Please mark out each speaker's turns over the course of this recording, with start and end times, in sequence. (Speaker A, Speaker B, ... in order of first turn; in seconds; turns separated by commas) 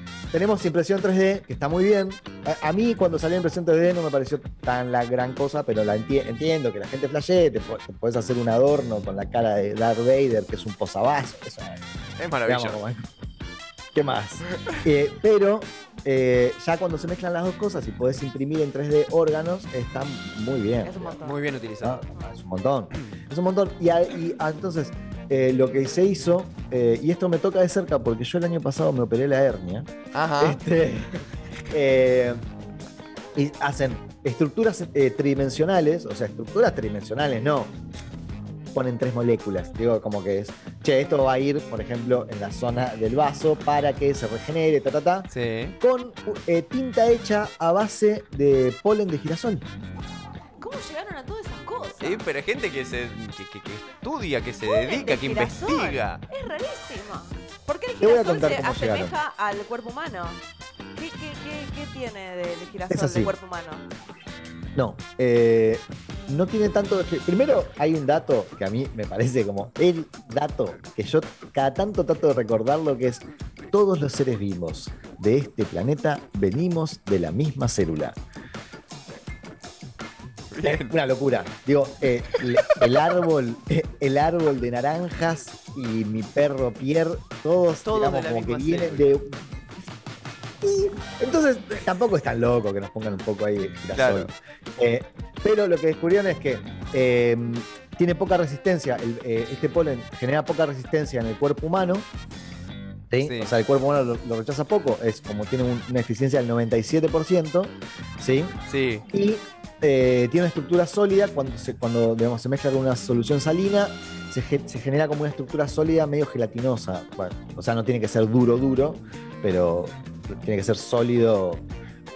Speaker A: 0.3-11.8, Speaker B: 12.2-12.8, Speaker A: 12.5-13.1, Speaker A: 13.9-21.2, Speaker C: 20.8-21.5, Speaker B: 21.2-22.0, Speaker A: 21.8-29.9, Speaker B: 30.1-30.6, Speaker A: 30.4-32.4, Speaker A: 33.4-37.7, Speaker A: 38.7-45.3, Speaker B: 45.3-45.8, Speaker A: 45.8-49.7, Speaker C: 50.6-52.2, Speaker B: 52.0-56.2, Speaker C: 54.6-60.4, Speaker A: 58.0-59.2, Speaker C: 61.0-63.9, Speaker A: 62.9-63.3, Speaker A: 64.8-78.2, Speaker B: 80.5-81.0, Speaker A: 80.6-89.4, Speaker B: 82.3-82.8, Speaker B: 87.8-89.1, Speaker A: 90.6-102.1, Speaker B: 93.9-94.3, Speaker A: 103.1-121.6, Speaker B: 103.2-103.5, Speaker B: 108.7-109.1